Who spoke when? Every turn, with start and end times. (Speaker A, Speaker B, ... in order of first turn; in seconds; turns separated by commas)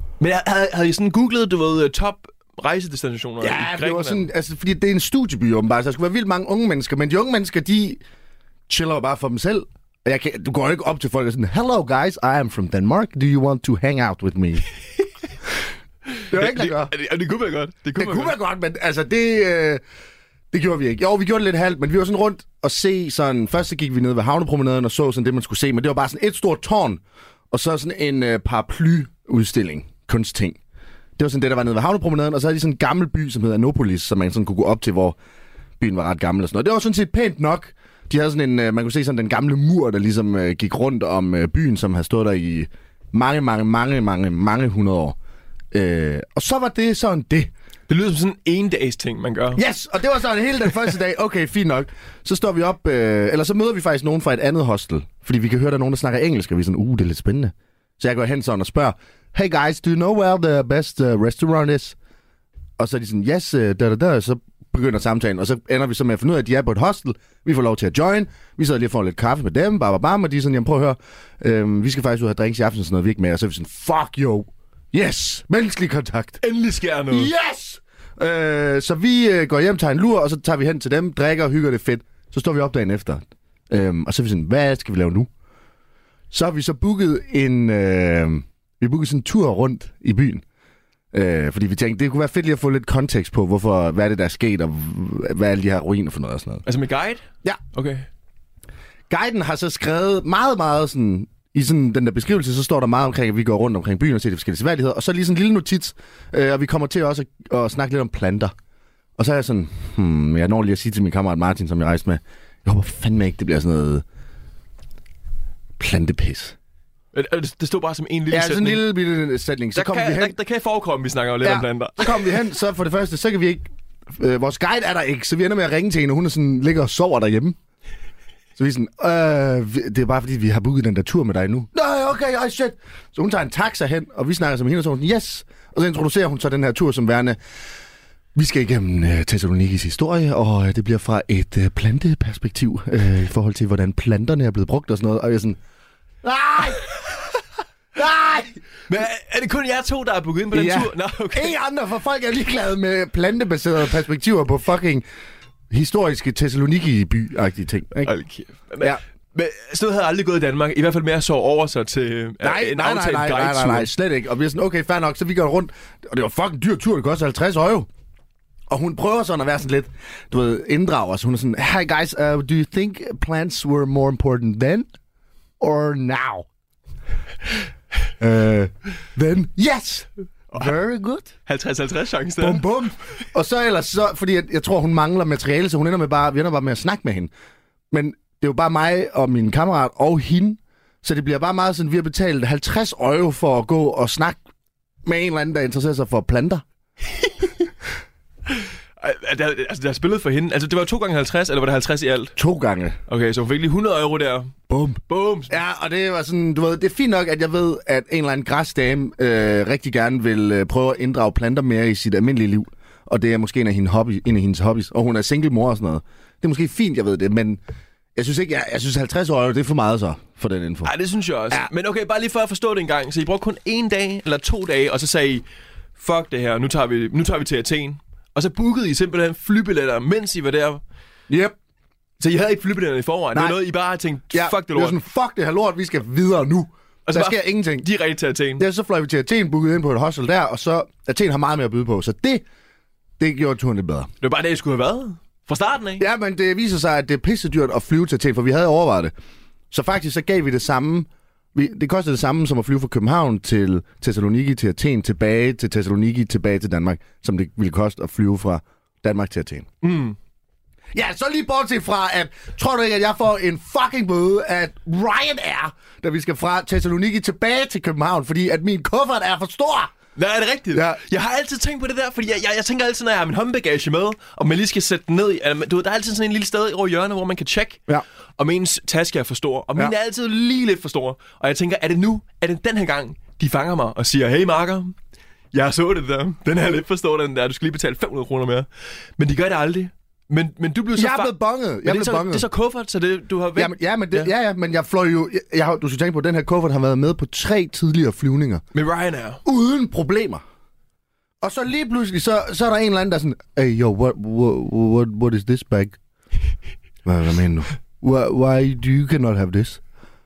Speaker A: 0.2-4.3, Speaker B: 3.4-8.0, Speaker B: 8.7-14.7, Speaker A: 16.1-18.3, Speaker B: 16.3-16.9, Speaker B: 18.0-19.8, Speaker B: 20.5-30.6, Speaker B: 31.2-35.2, Speaker B: 35.8-45.2, Speaker B: 45.7-47.5, Speaker A: 47.9-49.6, Speaker B: 49.5-62.0, Speaker B: 62.8-76.4, Speaker A: 76.4-77.3, Speaker B: 77.1-85.3, Speaker B: 86.3-90.4, Speaker B: 91.1-96.7, Speaker A: 96.7-98.1, Speaker B: 99.1-108.5, Speaker B: 109.2-114.0, Speaker B: 115.8-116.5, Speaker A: 117.1-118.9, Speaker B: 118.3-120.3, Speaker A: 119.8-122.4, Speaker B: 121.4-127.6, Speaker B: 128.6-137.4, Speaker B: 138.3-145.6, Speaker B: 146.2-146.9, Speaker B: 147.9-148.6, Speaker A: 148.9-151.6, Speaker B: 150.5-155.1, Speaker B: 155.7-158.1, Speaker A: 158.0-163.9, Speaker B: 162.4-167.9, Speaker B: 168.7-174.9, Speaker B: 175.6-176.5, Speaker B: 178.2-181.3, Speaker A: 181.5-182.7, Speaker B: 182.4-187.3, Speaker B: 187.9-194.4, Speaker B: 195.1-196.6, Speaker A: 198.5-202.4, Speaker B: 202.4-203.0, Speaker A: 203.1-204.6, Speaker B: 204.7-217.6, Speaker A: 205.1-205.5, Speaker B: 218.2-220.9, Speaker A: 220.8-225.4, Speaker A: 226.0-230.8, Speaker B: 231.3-231.6, Speaker A: 232.2-235.0, Speaker B: 234.3-237.9, Speaker A: 237.1-238.7, Speaker B: 238.6-242.4, Speaker B: 243.2-244.1, Speaker A: 244.2-246.1, Speaker B: 246.0-249.1, Speaker B: 249.7-259.7, Speaker A: 259.8-260.2, Speaker B: 260.9-269.9, Speaker A: 270.2-277.8, Speaker B: 270.7-271.0, Speaker A: 278.4-284.9, Speaker A: 285.5-291.3, Speaker B: 290.9-292.5, Speaker A: 291.9-294.3, Speaker B: 293.6-298.6, Speaker A: 298.7-299.4, Speaker B: 299.4-300.4, Speaker B: 301.4-306.0, Speaker B: 307.1-309.8